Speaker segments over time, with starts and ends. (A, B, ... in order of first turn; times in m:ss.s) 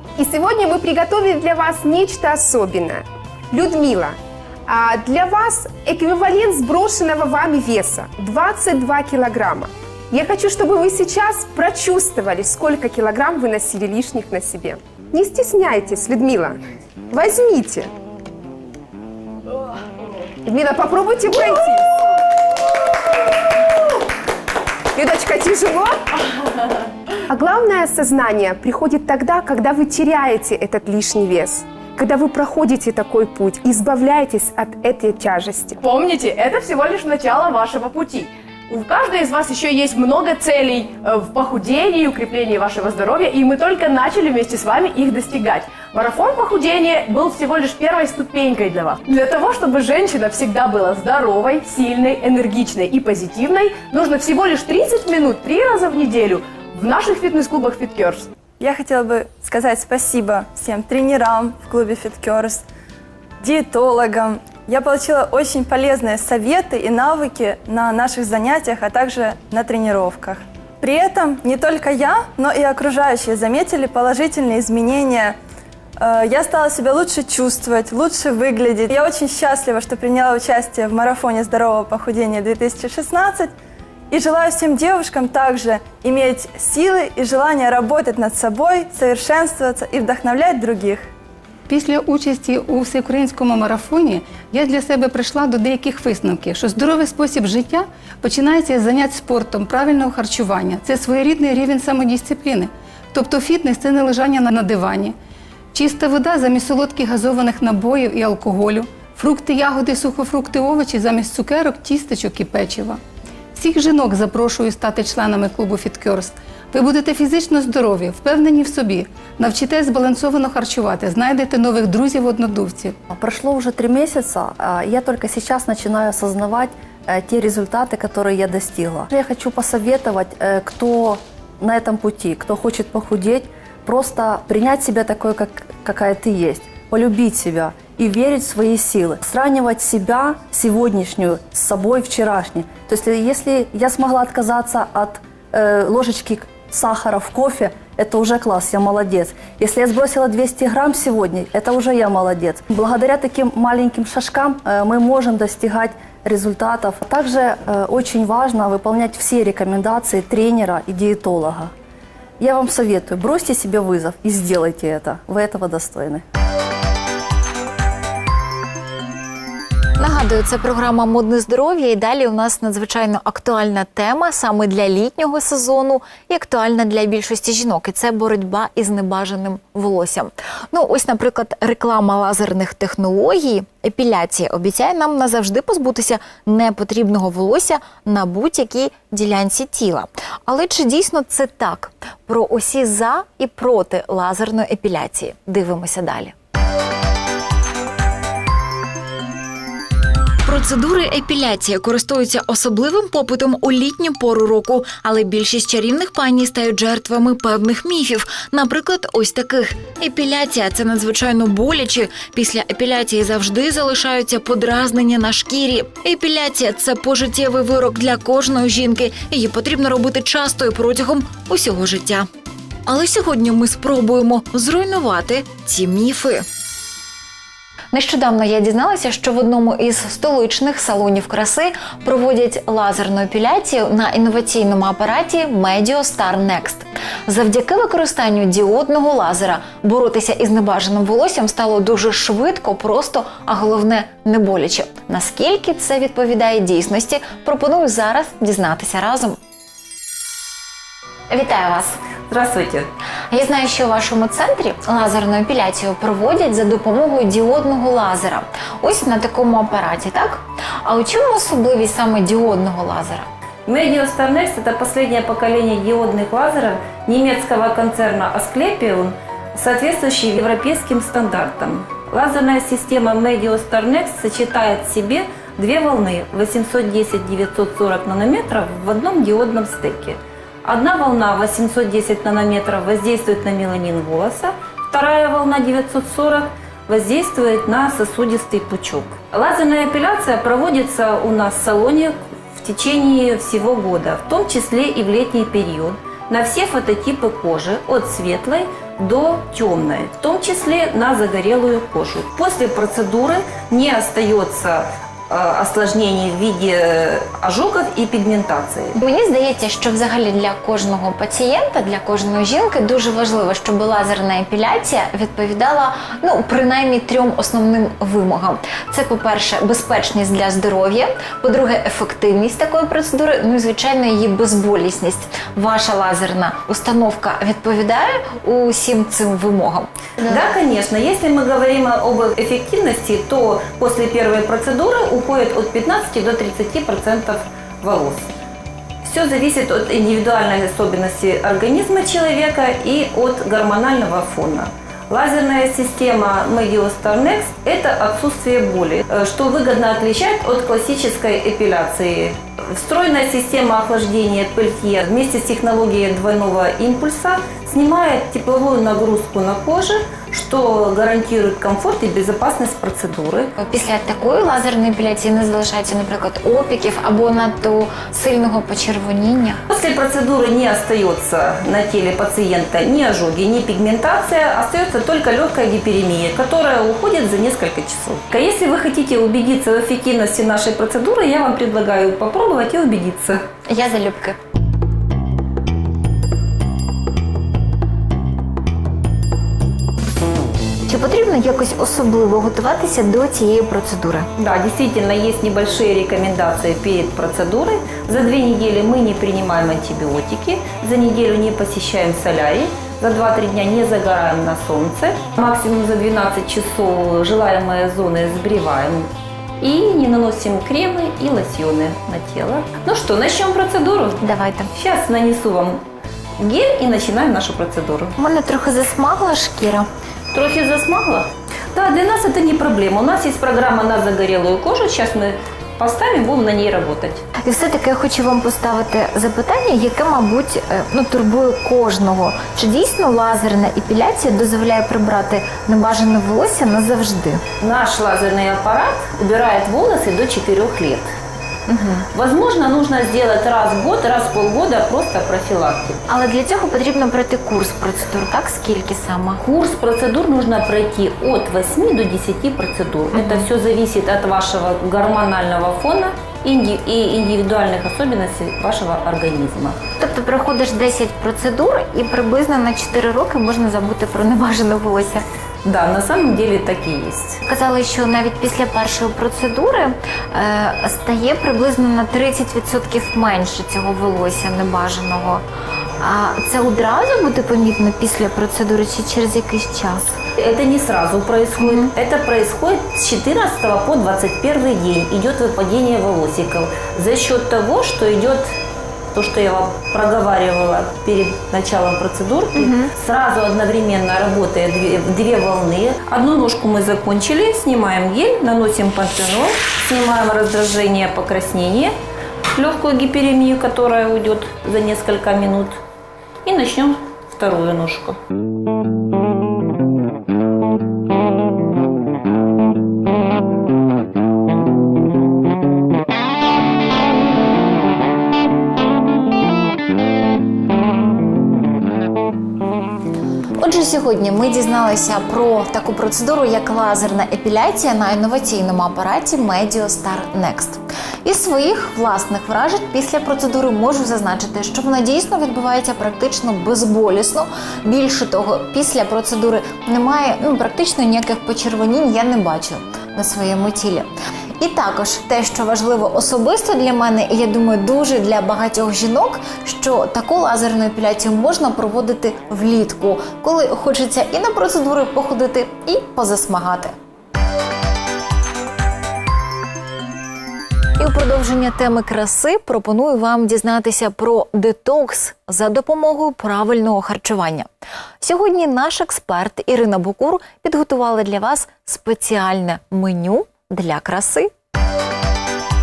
0:00.2-0:16.6 A
0:17.1-0:17.9 A
0:20.4-0:21.9 A
0:24.9-0:26.0 A
0:27.3-0:35.8 A
0:35.8-0:58.3 B
0:58.6-1:02.6 C
1:03.4-1:15.4 C
1:16.0-1:23.5 C
1:24.1-1:31.1 C
1:31.7-1:45.2 D
1:45.7-1:53.0 D
1:53.5-2:03.0 D
2:03.1-2:41.7 E
2:42.4-2:46.2 E
2:50.0-3:16.3 F
3:20.4-3:42.3 F
3:42.9-3:46.4 F
3:47.9-4:09.4 F
4:11.3-4:12.0 F
4:12.3-4:12.9 G
4:13.3-4:23.3 F
4:23.7-5:09.0 G
5:09.0-5:30.4 F
5:30.2-5:38.3 G
5:39.0-6:03.5 G
6:03.6-6:09.6 F
6:09.7-6:23.5 G
6:23.7-6:24.4 F
6:30.9-6:34.3 F
6:34.4-6:49.1 G
6:49.6-6:54.2 G
6:54.2-6:54.7 F
6:54.7-6:55.8 G
6:56.4-6:58.2 G
6:58.2-6:59.9 F
7:00.3-7:07.2 G
7:07.4-7:17.4 F
7:17.6-7:21.1 G
7:21.7-7:22.1 F
7:22.1-7:26.0 G
7:26.1-7:29.4 F
7:29.4-7:39.8 G
7:33.1-7:33.5 F
7:40.0-7:45.2 F
7:45.6-7:47.4 G
7:47.5-7:55.4 F
7:56.0-8:00.2 F
8:00.4-8:08.5 G
8:01.6-8:01.9 F
8:09.1-8:21.9 G
8:12.6-8:12.9 F
8:22.6-8:25.8 G
8:26.4-8:28.2 G
8:43.6-9:16.9 F
9:21.0-9:27.7 F
9:28.2-9:34.5 F